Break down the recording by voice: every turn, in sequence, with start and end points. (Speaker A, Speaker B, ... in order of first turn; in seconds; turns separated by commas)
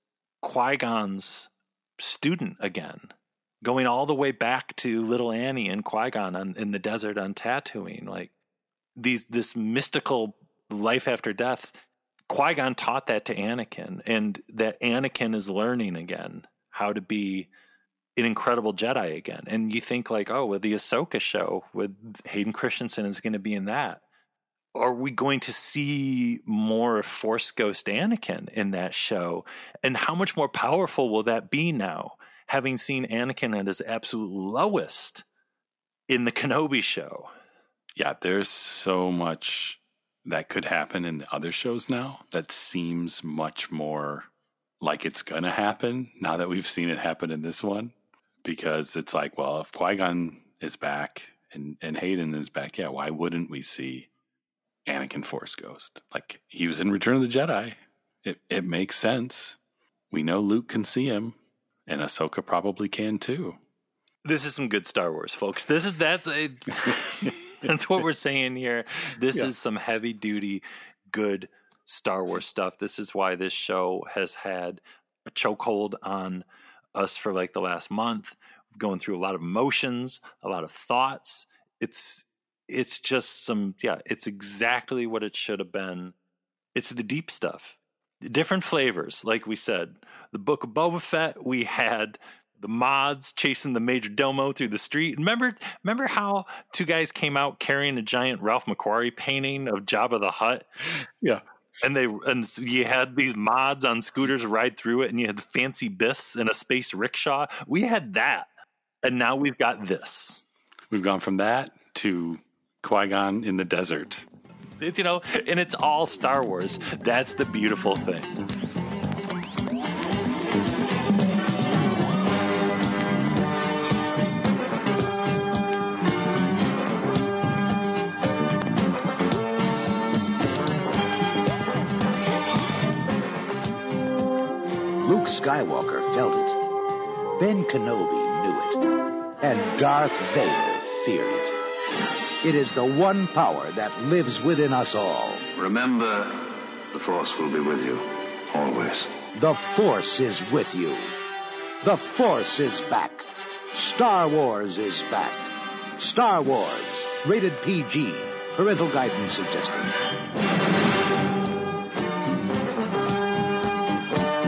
Speaker A: 0.4-8.3, Speaker A: 9.0-11.8, Speaker A: 12.3-17.5, Speaker A: 18.2-24.0, Speaker A: 24.8-35.2, Speaker A: 36.1-37.3, Speaker B: 38.0-44.3, Speaker B: 44.8-47.9, Speaker B: 48.4-54.1, Speaker B: 54.9-59.6, Speaker B: 60.1-63.6, Speaker A: 64.2-86.1, Speaker A: 86.8-100.7, Speaker A: 101.8-108.5, Speaker A: 109.0-110.4, Speaker B: 110.9-114.3, Speaker A: 114.8-118.3, Speaker C: 135.0-136.6, Speaker C: 137.4-138.8, Speaker C: 139.4-141.5, Speaker C: 142.4-145.5, Speaker D: 145.6-146.3, Speaker D: 146.9-148.0, Speaker D: 148.6-149.0, Speaker C: 149.3-151.1, Speaker C: 151.8-155.4, Speaker C: 156.0-159.9